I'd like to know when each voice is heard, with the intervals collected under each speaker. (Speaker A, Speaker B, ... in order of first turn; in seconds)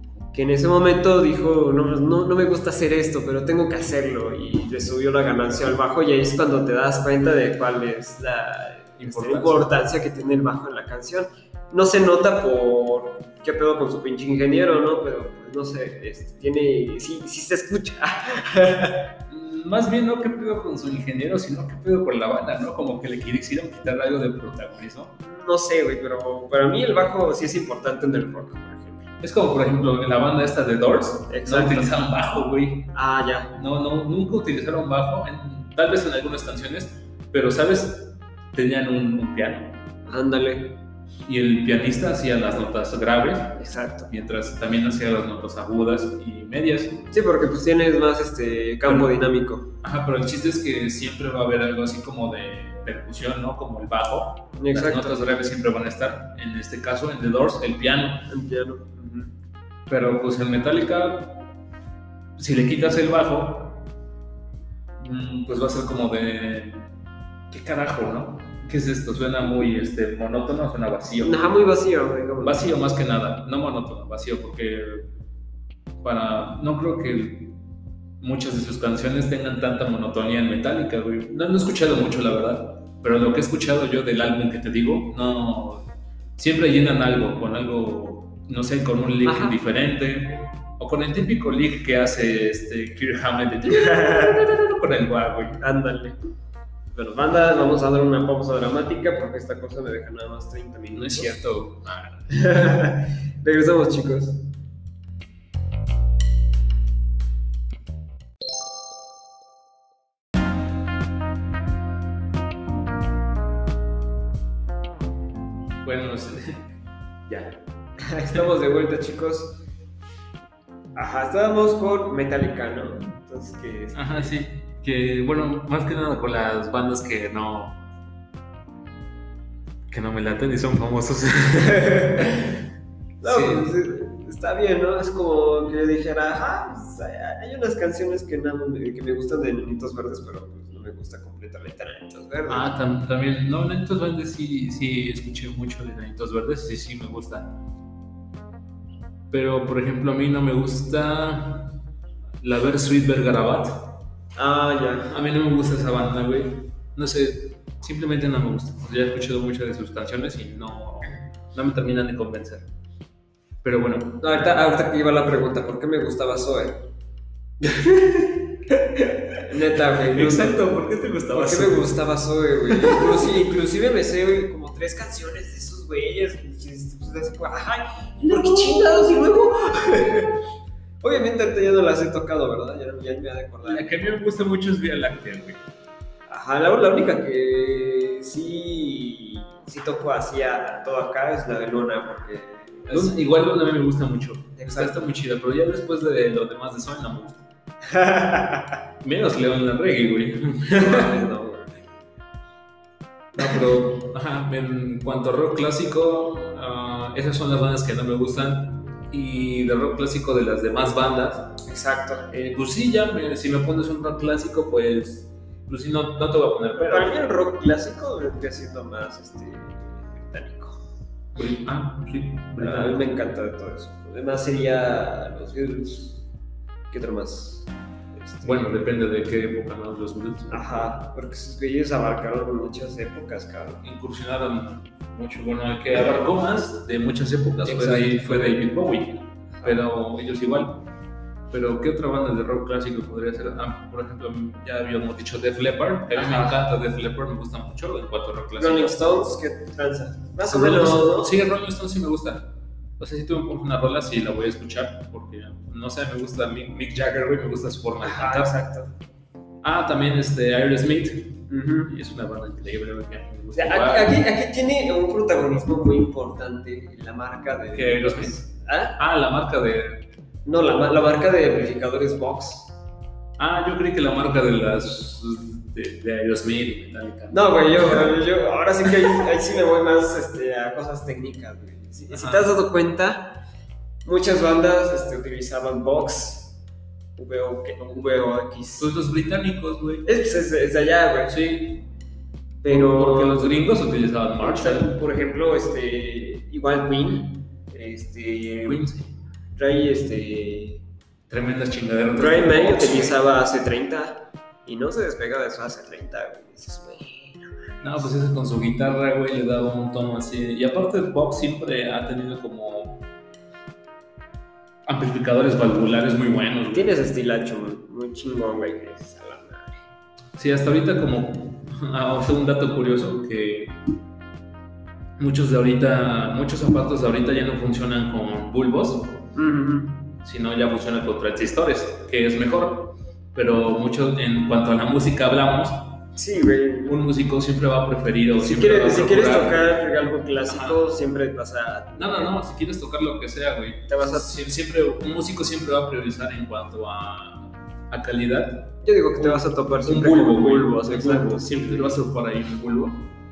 Speaker A: 0.3-19.1, 25.2-29.1, 31.3-32.0, 32.9-33.5, 40.1-40.8, 43.6-44.1, 47.1-49.7, 54.6-55.3, 58.3-59.3, 71.2-72.7, 89.2-89.6, 93.7-94.4, 95.6-96.2, 96.9-101.5, 102.3-104.5, 118.0-119.6, 121.0-124.3, 131.7-132.4, 133.2-142.7, 154.4-155.2, 164.2-166.9, 167.6-168.3, 169.4-170.7, 171.3-180.4, 181.0-183.9, 186.3-193.2, 194.6-195.0, 197.8-198.8, 200.7-201.8, 211.7-212.3, 216.8-220.8, 222.6-226.2, 226.9-228.7, 230.5-233.8, 237.7-238.6, 246.2-246.6, 248.6-251.3, 258.0-258.9, 261.5-261.9, 263.5-269.0, 270.4-272.7, 277.3-283.4, 284.1-286.6, 287.2-288.9, 290.1-291.4, 292.6-293.6, 294.4-298.8, 299.6-300.8, 302.2-307.5, 316.7-319.9, 329.3-330.1, 336.1-337.0, 338.4-342.4, 343.9-344.3, 348.8-351.9
Speaker B: 9.0-9.7, 19.3-25.1, 29.2-32.9, 33.5-39.8, 41.3-47.0, 48.9-49.1, 49.8-58.3, 59.9-61.5, 62.4-63.9, 65.0-66.9, 67.5-71.5, 72.4-75.1, 76.0-77.6, 78.2-95.6, 101.0-102.3, 115.8-116.7, 117.3-117.6, 123.9-127.8, 129.9-132.4, 133.2-133.8, 142.5-147.6, 149.3-151.8, 152.4-154.0, 155.1-162.7, 163.6-164.3, 169.9-171.9, 172.7-173.3, 178.3-179.2, 183.6-185.6, 192.9-197.4, 199.0-201.2, 203.3-211.6, 212.3-217.2, 221.3-223.2, 228.4-230.9, 233.8-240.8, 241.5-249.2, 250.4-258.5, 259.6-264.2, 267.7-268.4, 269.0-270.1, 273.4-278.1, 282.1-282.5, 288.8-290.1, 291.3-291.9, 292.7-294.9, 298.6-299.1, 301.3-303.2, 307.8-313.1, 314.9-316.9, 320.4-323.8, 325.2-329.2, 330.2-336.0, 336.9-339.6, 340.5-340.8, 342.0-353.1